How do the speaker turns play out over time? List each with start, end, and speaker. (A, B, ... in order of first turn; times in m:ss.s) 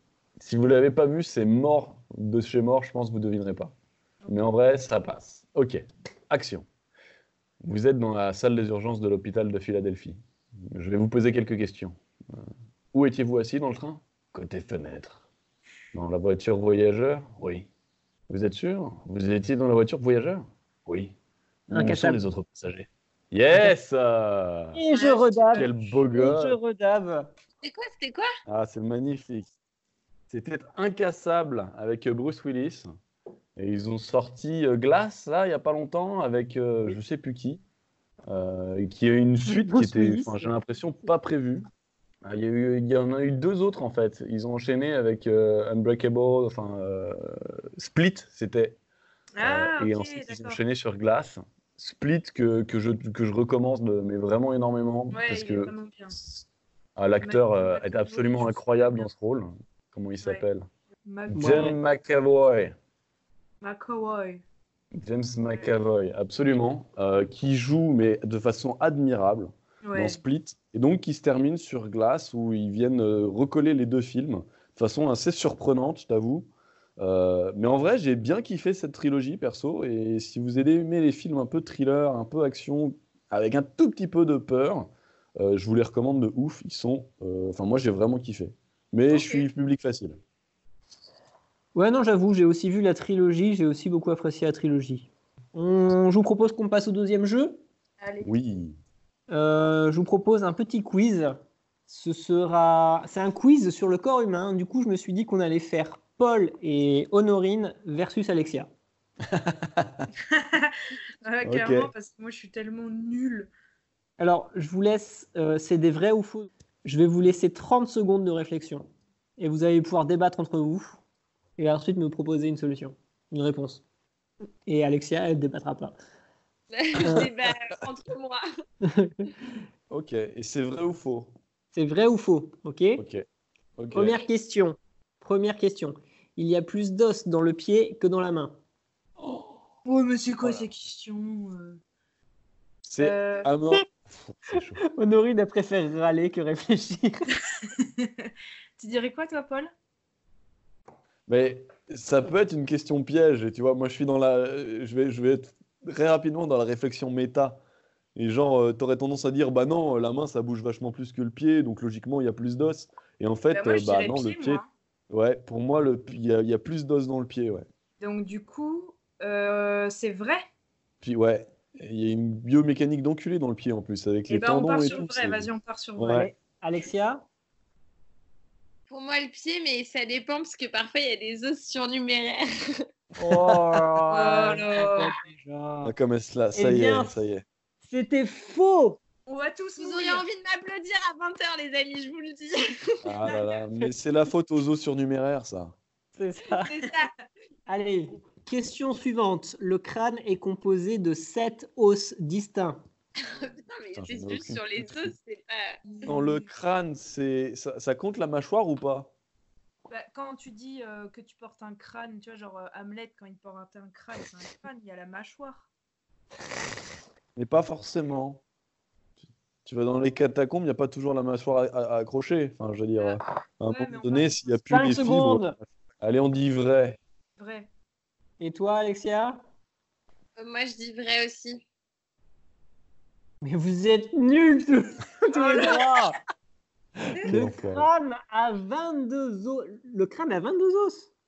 0:00.4-0:03.7 A
0:04.3-0:06.7 A
0:07.6-0:15.3 A
0:15.9-0:17.7 A
0:18.3-0:21.1 A
0:21.7-0:24.8 A
0:21.7-0:22.2 B
0:24.7-0:27.3 B
0:24.9-0:25.7 C
0:25.5-0:26.6 A
0:27.6-0:28.3 D
0:28.5-0:29.5 A
0:30.3-0:32.9 A
0:33.6-0:37.6 A
0:38.3-0:41.7 A
0:39.5-0:40.5 B
0:42.2-0:48.8 A
0:49.4-0:50.6 C
0:49.4-0:56.4 A
0:55.1-0:56.2 C
0:57.0-1:00.7 A
0:57.2-0:59.1 C
1:01.1-1:01.8 C
1:01.3-1:02.8 A
1:01.3-1:01.8 B
1:03.6-1:04.4 C
1:04.9-1:30.2 A
1:09.8-1:10.2 C
1:29.1-1:29.5 C
1:31.8-1:37.6 B
1:38.0-1:38.4 C
1:38.2-1:38.8 A
1:39.3-1:41.4 B
1:41.9-1:48.7 B
1:49.2-1:50.1 A
1:50.3-1:53.5 C
1:51.4-1:51.9 A
1:54.2-1:58.9 B
1:59.4-2:01.0 B
2:01.6-2:03.8 B
2:04.7-2:06.0 B
2:06.7-2:08.4 D
2:07.0-2:07.3 B
2:08.8-2:09.3 B
2:09.9-2:11.3 A
2:11.7-2:13.0 B
2:13.0-2:13.2 A
2:13.8-2:14.2 A
2:13.9-2:18.6 B
2:19.2-2:19.6 A
2:19.8-2:21.8 C
2:20.4-2:20.7 A
2:22.9-2:24.8 A
2:23.0-2:23.5 C
2:25.0-2:27.2 B
2:27.6-2:29.7 C
2:31.3-2:37.6 A
2:38.2-2:47.7 A
2:43.5-2:44.7 C
2:48.0-2:50.4 C
2:51.0-2:56.3 A
2:54.3-2:56.3 C
2:56.1-2:57.2 B
2:58.9-3:02.8 D
3:03.2-3:03.8 A
3:03.2-3:05.9 B
3:04.1-3:05.2 C
3:05.8-3:07.4 A
3:06.6-3:07.1 B
3:07.8-3:09.0 B
3:09.3-3:10.2 C
3:09.8-3:13.0 D
3:13.0-3:15.8 A
3:13.2-3:13.6 C
3:16.2-3:16.7 B
3:16.5-3:17.1 D
3:16.8-3:17.1 C
3:17.7-3:22.8 B
3:23.2-3:25.8 D
3:24.0-3:25.1 A
3:25.9-3:26.5 C
3:26.1-3:29.1 A
3:29.9-3:35.7 C
3:37.4-3:38.4 A
3:39.6-3:47.0 A
3:43.0-3:44.6 C
3:44.7-3:45.6 B
3:47.4-3:47.7 C
3:48.4-3:49.4 B
3:50.4-3:51.6 D
3:53.4-3:56.2 B
3:55.3-3:55.8 C
3:57.2-3:57.9 A
3:57.3-4:01.1 B